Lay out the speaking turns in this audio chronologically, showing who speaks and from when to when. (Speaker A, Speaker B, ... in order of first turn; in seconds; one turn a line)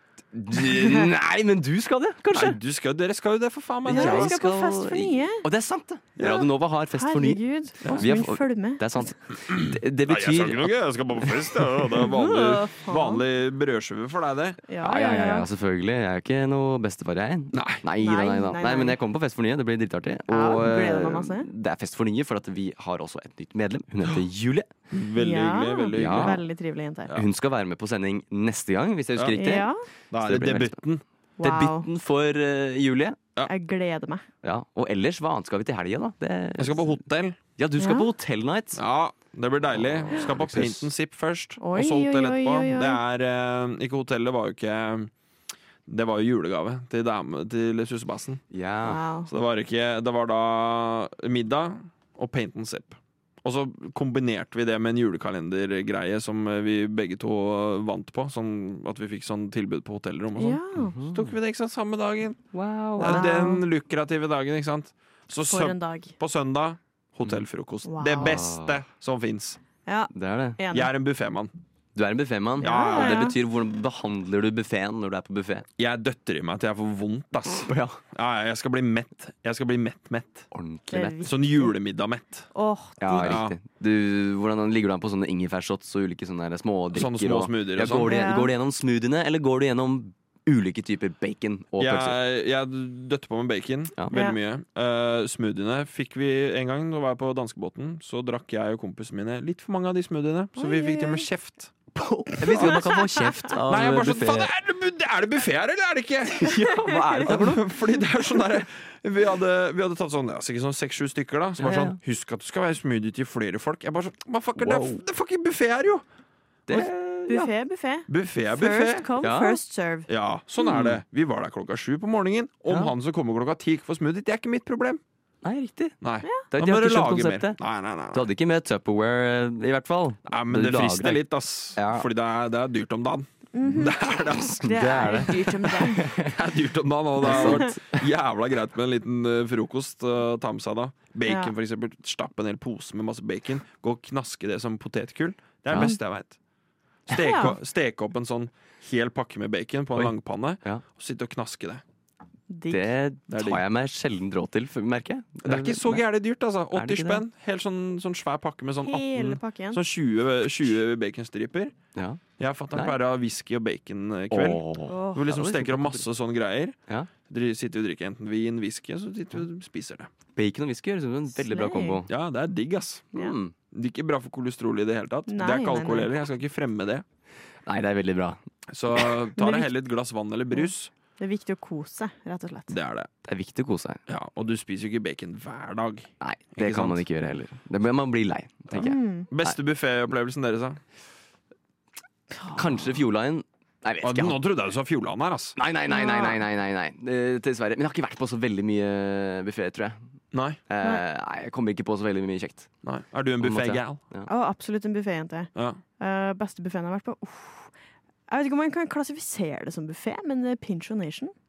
Speaker A: 0.3-2.6
Speaker B: 2.3-4.3
Speaker A: 3.9-11.6
Speaker C: 3.9-5.4
Speaker B: 6.2-6.5
Speaker C: 6.9-9.1
Speaker B: 7.8-8.1
Speaker B: 9.5-14.6
Speaker C: 12.0-13.2
Speaker C: 14.7-15.5
Speaker A: 14.8-24.7
Speaker B: 17.5-17.8
Speaker C: 18.0-19.0
Speaker C: 20.3-21.5
Speaker B: 24.9-26.4
Speaker C: 25.2-27.1
Speaker A: 25.9-26.4
Speaker A: 27.1-30.8
Speaker C: 29.4-29.8
Speaker B: 30.1-31.0
Speaker C: 31.4-31.9
Speaker A: 31.4-33.2
Speaker C: 33.5-34.2
Speaker A: 34.4-36.9
Speaker B: 36.6-37.4
Speaker A: 37.6-38.8
Speaker C: 37.8-38.1
Speaker B: 38.8-45.1
Speaker A: 39.7-40.9
Speaker C: 41.6-43.0
Speaker B: 45.9-48.4
Speaker A: 48.5-49.0
Speaker C: 48.9-49.3
Speaker B: 49.3-62.5
Speaker C: 60.4-61.0
Speaker A: 60.8-61.3
Speaker A: 62.5-63.3
Speaker C: 63.0-63.6
Speaker B: 63.0-69.6
Speaker C: 65.5-66.1
Speaker C: 67.8-68.3
Speaker A: 68.2-68.8
Speaker C: 69.9-70.9
Speaker A: 70.1-70.6
Speaker B: 70.7-71.5
Speaker A: 72.0-75.7
Speaker C: 72.6-73.4
Speaker B: 72.6-73.3
Speaker B: 75.8-80.5
Speaker A: 77.5-78.0
Speaker A: 80.5-81.2
Speaker C: 80.9-81.3
Speaker B: 81.2-82.5
Speaker C: 82.5-83.3
Speaker A: 83.0-92.2
Speaker B: 83.2-83.6
Speaker B: 86.9-88.3
Speaker C: 88.0-88.5
Speaker B: 91.8-101.7
Speaker C: 94.1-94.4
Speaker C: 100.6-101.3
Speaker A: 102.0-104.5
Speaker C: 102.5-103.5
Speaker B: 102.5-102.8
Speaker B: 103.7-106.5
Speaker A: 106.3-107.7
Speaker B: 107.2-116.0
Speaker A: 111.6-112.0
Speaker A: 114.5-115.0
Speaker A: 116.7-117.5
Speaker C: 116.7-120.1
Speaker B: 118.1-119.1
Speaker A: 119.2-119.6
Speaker B: 120.1-125.0
Speaker A: 120.7-121.0
Speaker A: 122.7-122.9
Speaker A: 125.4-126.0
Speaker B: 126.0-128.3
Speaker A: 126.5-127.6
Speaker A: 128.1-131.2
Speaker B: 130.3-135.2
Speaker A: 131.8-132.1
Speaker C: 133.5-136.1
Speaker A: 134.5-136.4
Speaker B: 136.1-146.4
Speaker A: 137.2-138.1
Speaker C: 137.3-137.7
Speaker C: 141.3-141.5
Speaker A: 145.7-146.0
Speaker B: 147.1-151.8
Speaker C: 147.1-147.6
Speaker A: 149.9-150.8
Speaker C: 152.5-152.9
Speaker A: 152.7-156.0
Speaker B: 153.3-153.6
Speaker B: 155.4-161.8
Speaker A: 156.7-157.2
Speaker C: 158.8-159.8
Speaker A: 161.9-162.2
Speaker B: 162.4-166.8
Speaker A: 164.3-166.0
Speaker C: 164.9-165.3
Speaker B: 167.3-170.1
Speaker A: 170.4-172.1
Speaker C: 171.4-172.0
Speaker B: 172.1-173.1
Speaker A: 173.1-173.5
Speaker B: 173.7-177.0
Speaker C: 175.3-176.1
Speaker A: 177.7-178.4
Speaker B: 178.7-180.9
Speaker C: 179.4-179.7
Speaker C: 180.5-182.8
Speaker B: 182.7-183.1
Speaker A: 183.2-184.0
Speaker B: 184.1-187.0
Speaker A: 186.2-189.6
Speaker B: 188.7-190.8
Speaker C: 188.8-189.3
Speaker C: 192.3-192.6
Speaker A: 192.5-194.4
Speaker B: 194.0-195.6
Speaker A: 195.6-200.0
Speaker C: 195.9-196.4
Speaker B: 200.3-200.6
Speaker A: 200.7-202.7
Speaker B: 202.8-204.0
Speaker A: 203.4-204.3
Speaker C: 204.3-207.7
Speaker B: 205.6-205.8
Speaker C: 208.3-211.3